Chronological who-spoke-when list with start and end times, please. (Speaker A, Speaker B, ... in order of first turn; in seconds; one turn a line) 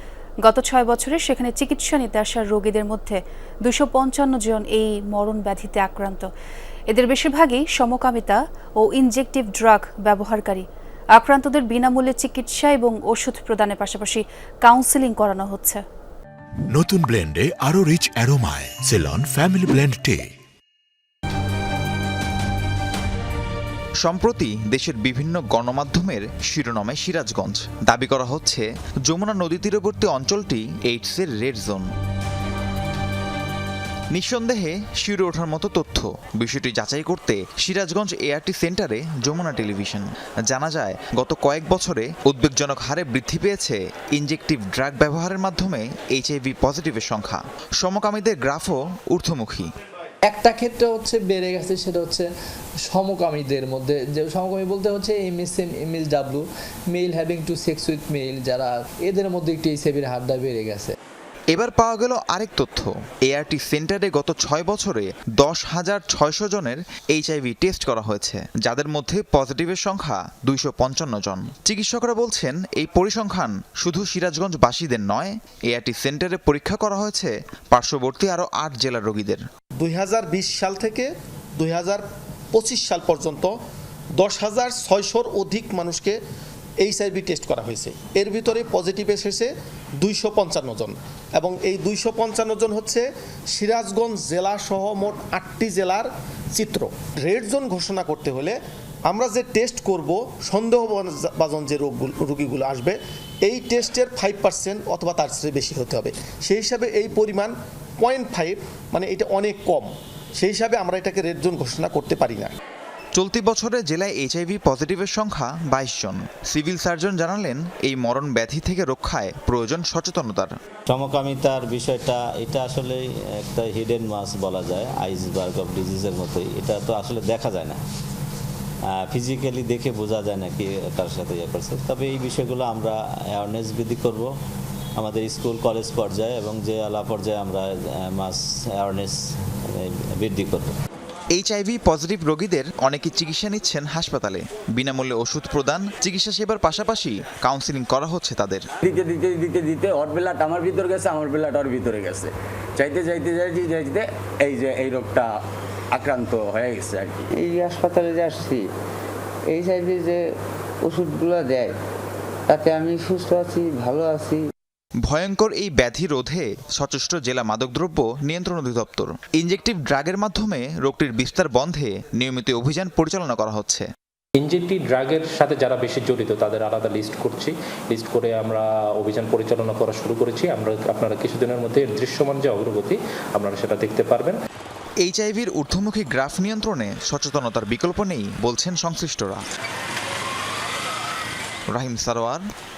Speaker A: 0.4-6.3
Speaker A: 6.9-15.8
Speaker B: 16.7-20.3
Speaker C: 24.0-31.8
Speaker C: 34.1-49.7
Speaker D: 50.2-52.3
Speaker D: 52.8-61.0
Speaker C: 61.5-79.4
Speaker E: 79.8-83.5
Speaker E: 84.2-86.2
Speaker E: 86.8-112.5
Speaker C: 113.1-120.5
Speaker F: 120.9-127.8
Speaker F: 128.9-134.3
Speaker F: 135.0-140.8
Speaker C: 141.3-148.6
Speaker G: 148.8-155.3
Speaker G: 155.9-157.2
Speaker H: 157.3-158.7
Speaker H: 159.5-160.2
Speaker H: 160.8-161.8
Speaker H: 162.5-164.5
Speaker C: 165.0-173.9
Speaker I: 174.4-184.4
Speaker C: 185.0-189.4
Speaker C: 191.7-192.4